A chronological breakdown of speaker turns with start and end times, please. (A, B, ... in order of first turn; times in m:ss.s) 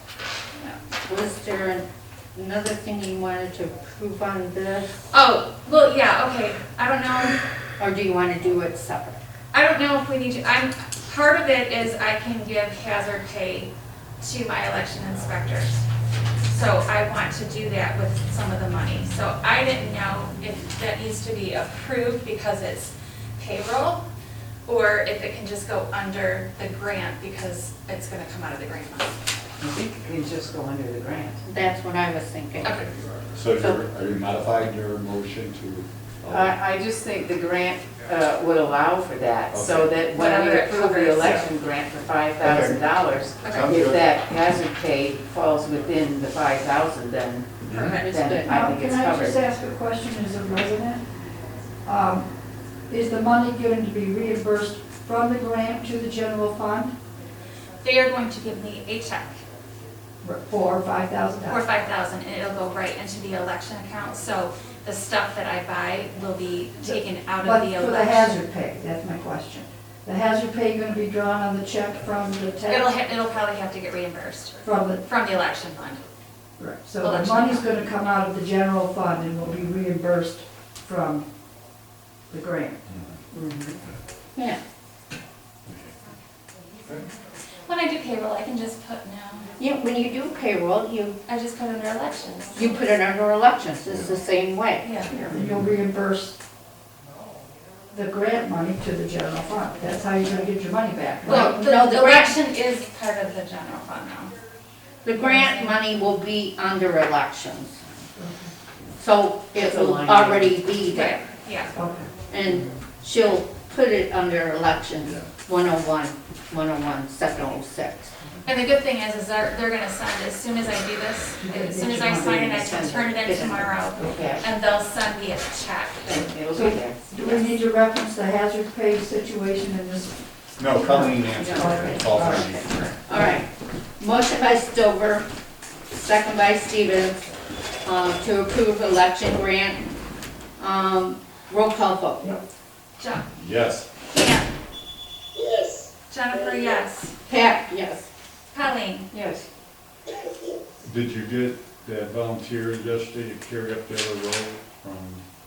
0:01.0-0:05.0 A
0:05.1-0:07.4 B
0:07.8-0:09.2 A
0:09.5-0:15.8 B
0:16.4-0:24.0 B
0:24.6-0:29.2 B
0:29.6-0:31.4 C
0:31.4-0:32.7 A
0:32.6-0:36.6 D
0:32.6-0:32.9 B
0:36.3-0:49.4 C
0:39.5-0:40.0 D
0:40.1-0:41.4 B
0:41.2-0:41.5 D
0:42.4-0:42.8 D
0:43.4-0:43.7 B
0:43.4-0:44.1 D
0:47.6-0:48.0 D
0:47.7-0:48.1 B
0:48.0-0:48.7 A
0:48.4-0:51.0 E
0:51.8-0:52.3 E
0:52.9-0:56.9 E
0:57.8-0:59.4 B
1:00.2-1:01.6 E
1:01.4-1:08.4 B
1:06.8-1:12.9 E
1:12.7-1:16.0 B
1:14.6-1:15.0 E
1:16.6-1:21.2 E
1:17.0-1:17.7 B
1:22.3-1:22.8 E
1:22.9-1:23.2 D
1:23.3-1:23.8 C
1:25.7-1:25.9 D
1:27.6-1:29.5 B
1:29.6-1:31.2 A
1:31.2-1:32.8 B
1:32.5-1:34.8 A
1:33.9-1:34.1 D
1:34.8-1:35.1 B
1:35.1-1:36.4 E
1:35.4-1:35.7 D
1:37.9-1:41.7 E
1:41.2-1:42.4 A
1:41.2-1:44.3 B
1:45.0-1:47.9 A
1:48.2-1:48.5 E
1:49.0-1:51.2 A
1:49.6-1:50.6 C
1:50.9-1:51.7 B
1:51.7-1:52.1 E
1:52.3-1:58.1 A
1:58.4-2:06.2 B
2:01.4-2:02.5 E
2:02.1-2:04.4 C
2:03.0-2:03.6 A
2:06.0-2:07.0 C
2:06.5-2:10.2 E
2:10.6-2:12.7 D
2:10.7-2:13.4 E
2:11.3-2:12.0 C
2:13.1-2:13.5 A
2:14.0-2:15.2 A
2:15.9-2:17.3 A
2:17.8-2:19.8 A
2:20.6-2:22.4 A
2:23.0-2:23.2 B
2:23.4-2:23.9 D
2:24.1-2:24.5 B
2:26.1-2:27.1 B
2:27.3-2:28.1 A
2:28.5-2:29.1 B
2:29.1-2:29.4 C
2:30.8-2:35.2 D